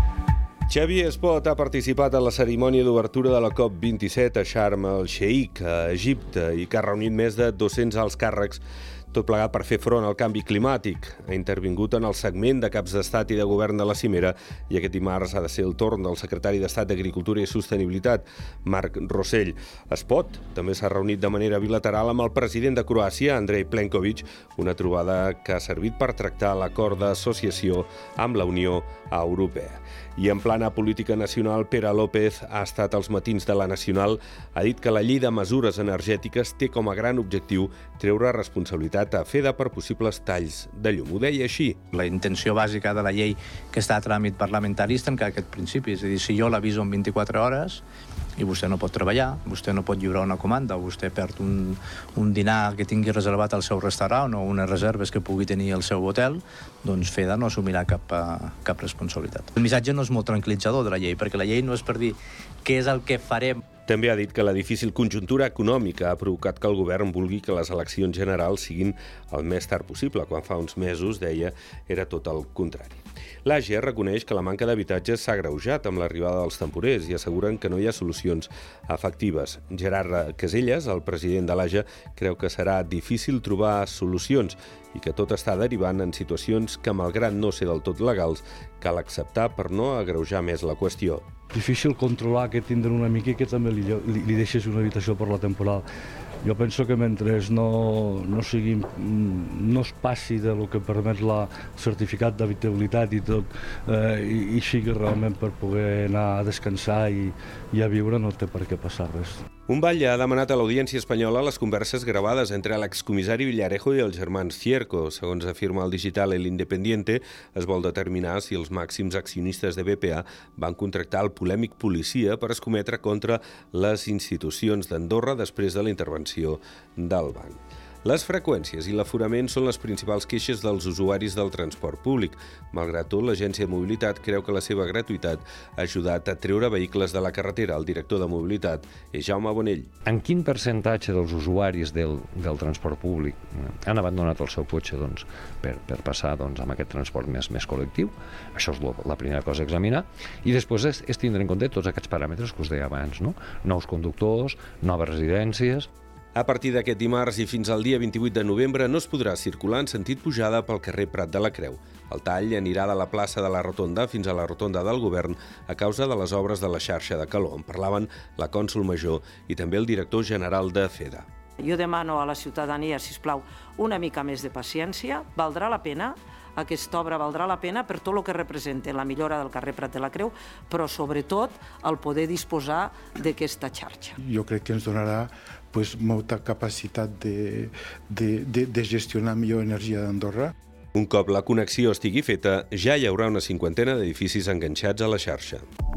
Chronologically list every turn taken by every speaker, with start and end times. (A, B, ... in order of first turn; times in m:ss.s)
0:00.7-0:41.8 A
0:41.9-0:47.8 B
0:48.4-1:03.6 B
1:03.9-1:31.2 A
1:31.5-1:35.8 C
1:36.4-1:49.4 C
1:49.7-2:19.9 A
2:20.0-2:35.9 D
2:36.4-2:51.3 A
2:51.6-3:04.2 E
3:04.2-3:10.5 F
3:11.0-3:15.6 A